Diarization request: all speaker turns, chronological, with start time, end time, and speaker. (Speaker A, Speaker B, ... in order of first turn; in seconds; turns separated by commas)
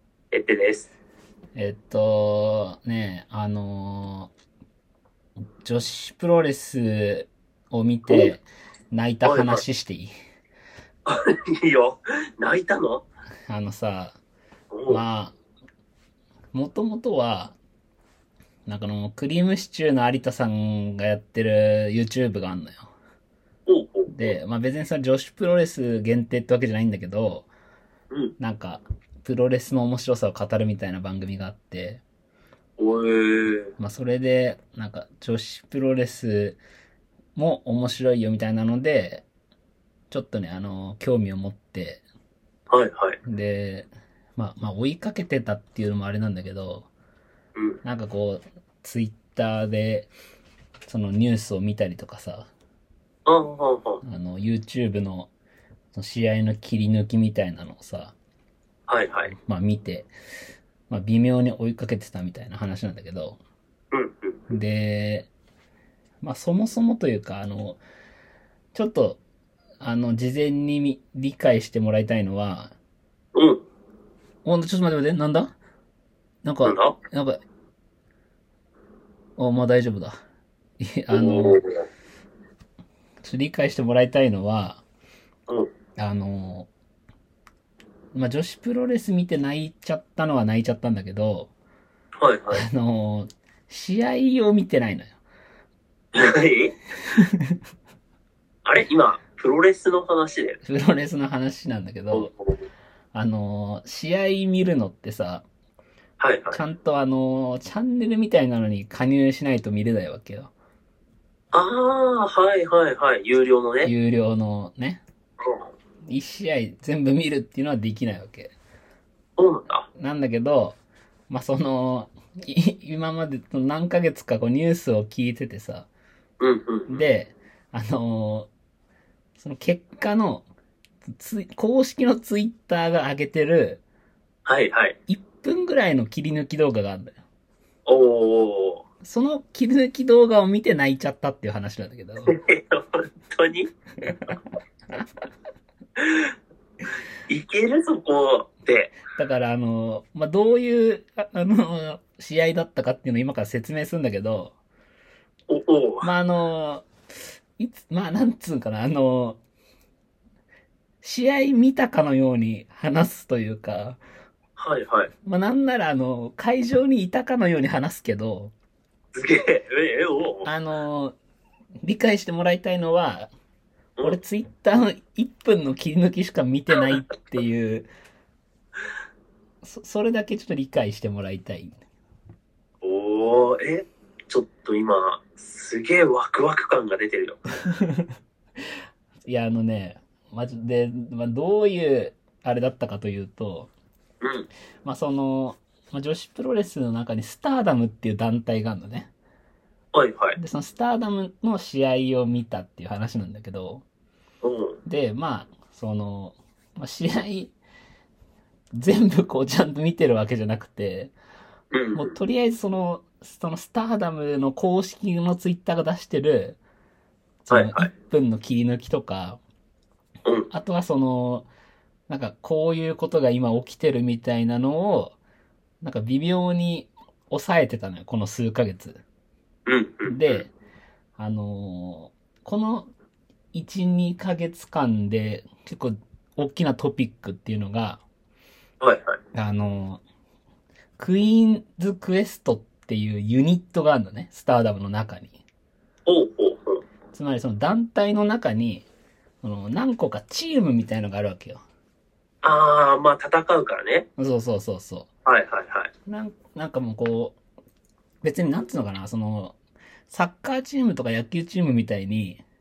Speaker A: 0.3-0.9, Speaker B: 1.5-4.3, Speaker B: 5.6-10.1, Speaker A: 8.1-8.3, Speaker A: 9.2-9.6, Speaker A: 11.0-13.0, Speaker B: 13.5-14.2, Speaker A: 14.7-15.0, Speaker B: 14.9-15.3, Speaker B: 16.5-17.6, Speaker B: 18.7-22.9, Speaker A: 23.6-24.4, Speaker B: 24.1-27.5, Speaker B: 28.4-32.0, Speaker A: 32.8-33.7, Speaker B: 33.8-36.6, Speaker B: 37.4-39.2, Speaker B: 40.1-42.0, Speaker A: 42.7-43.2, Speaker B: 43.2-46.9, Speaker A: 47.5-47.8, Speaker B: 47.8-50.1, Speaker B: 50.9-52.5, Speaker A: 53.2-54.0, Speaker B: 54.0-55.3, Speaker B: 55.9-58.1, Speaker A: 58.9-59.3, Speaker B: 59.4-60.1, Speaker B: 60.9-63.4, Speaker A: 63.9-64.5, Speaker B: 64.5-65.3, Speaker B: 66.2-67.8, Speaker B: 68.7-69.2, Speaker B: 69.8-72.7, Speaker A: 73.3-73.6, Speaker B: 74.4-75.5, Speaker B: 76.4-77.4, Speaker A: 76.6-77.0, Speaker B: 79.4-80.2, Speaker B: 80.8-81.6, Speaker A: 81.1-81.6, Speaker B: 83.2-84.8, Speaker B: 86.0-86.7, Speaker B: 88.1-91.5, Speaker A: 92.2-92.6, Speaker B: 92.5-95.1, Speaker A: 96.1-96.7, Speaker B: 97.1-97.6, Speaker A: 98.6-100.6, Speaker B: 100.6-102.3, Speaker A: 102.1-102.6, Speaker B: 103.1-105.4, Speaker A: 106.2-106.6, Speaker B: 106.5-110.5, Speaker A: 111.5-113.9, Speaker B: 113.8-115.0, Speaker A: 115.4-115.7, Speaker B: 116.1-118.5, Speaker A: 119.4-119.9, Speaker B: 120.0-120.8, Speaker B: 121.3-125.9, Speaker A: 126.4-127.0, Speaker B: 126.9-128.5, Speaker B: 129.4-130.4, Speaker B: 131.1-133.8, Speaker A: 134.4-134.9, Speaker B: 135.1-137.2, Speaker A: 137.8-138.8, Speaker B: 139.0-142.3, Speaker A: 142.3-143.7, Speaker B: 144.1-144.3, Speaker A: 146.0-146.3, Speaker A: 147.3-149.0, Speaker B: 149.1-154.5, Speaker A: 155.5-156.1, Speaker B: 156.0-156.9, Speaker B: 157.6-159.4, Speaker B: 161.0-164.0, Speaker A: 164.6-165.1, Speaker B: 165.2-168.5, Speaker A: 169.1-170.5, Speaker B: 170.4-171.2, Speaker B: 171.8-173.3, Speaker B: 174.0-177.9, Speaker B: 179.6-181.8, Speaker A: 182.8-187.4, Speaker B: 187.6-188.1, Speaker B: 189.2-193.7, Speaker A: 194.2-194.5, Speaker B: 194.8-199.1, Speaker A: 199.9-200.4, Speaker B: 200.3-203.8, Speaker A: 204.4-204.8, Speaker B: 204.8-207.5, Speaker B: 208.7-211.1, Speaker A: 211.7-212.1, Speaker B: 211.9-216.6, Speaker B: 217.4-219.4, Speaker A: 217.5-217.9, Speaker A: 220.2-220.5, Speaker B: 220.5-221.5, Speaker B: 222.1-225.2, Speaker B: 225.8-229.0, Speaker A: 229.7-230.4, Speaker B: 230.1-230.5, Speaker B: 231.2-232.9, Speaker B: 233.5-238.0, Speaker A: 238.8-239.2, Speaker B: 239.3-240.0, Speaker B: 241.0-245.4, Speaker A: 246.1-246.8, Speaker B: 247.1-248.8, Speaker B: 249.4-251.6, Speaker A: 252.4-254.1, Speaker B: 254.2-255.1, Speaker A: 255.2-255.9, Speaker B: 256.1-257.4, Speaker B: 258.2-259.6, Speaker B: 260.1-262.4